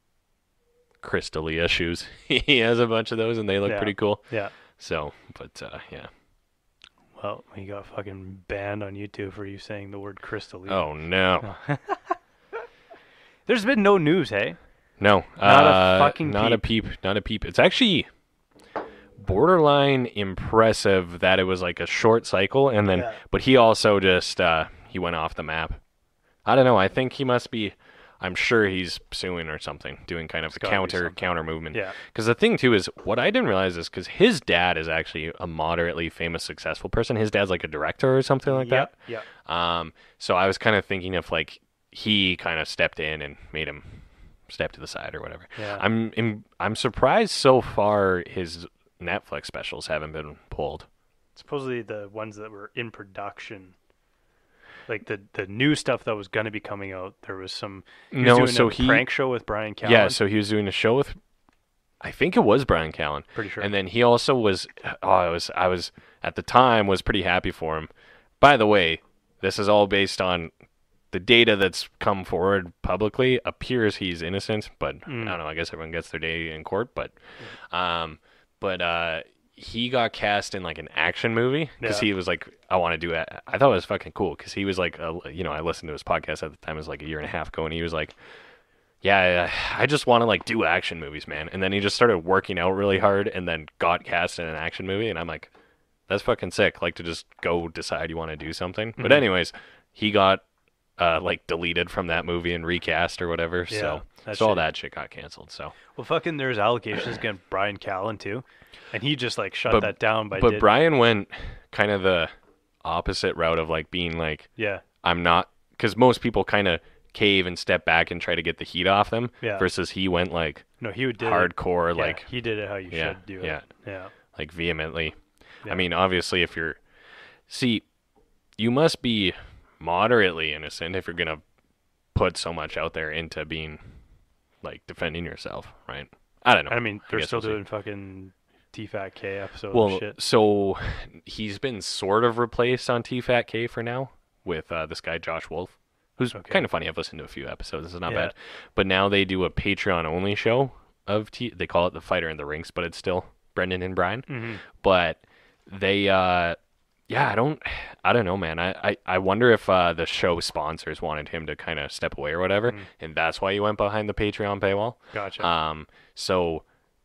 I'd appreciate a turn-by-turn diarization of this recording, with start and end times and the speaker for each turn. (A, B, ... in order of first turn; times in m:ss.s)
0:01.0-0:06.1 A
0:03.6-0:04.6 B
0:07.2-0:12.2 B
0:10.7-0:11.5 A
0:13.5-0:16.6 B
0:15.0-0:18.2 A
0:19.2-0:25.8 A
0:22.8-0:23.2 B
0:26.4-0:50.9 A
0:30.5-0:32.0 B
0:38.4-0:39.3 B
0:45.6-0:45.8 B
0:51.4-0:53.8 B
0:54.9-1:00.2 B
0:58.1-1:01.2 A
1:02.0-1:10.5 A
1:03.4-1:03.7 B
1:11.1-1:35.5 A
1:15.1-1:15.4 B
1:21.8-1:22.1 B
1:36.1-1:40.4 A
1:39.0-1:39.3 B
1:41.0-1:45.8 A
1:43.7-1:44.6 B
1:46.0-1:50.7 B
1:49.7-2:08.0 A
1:54.6-1:54.8 B
1:59.4-1:59.7 B
2:00.8-2:04.1 B
2:08.5-2:11.4 A
2:12.0-2:17.6 A
2:16.7-2:20.2 B
2:19.7-2:36.6 A
2:26.3-2:26.6 B
2:28.1-2:28.3 B
2:34.3-2:34.6 B
2:37.1-2:46.7 A
2:45.1-2:45.5 B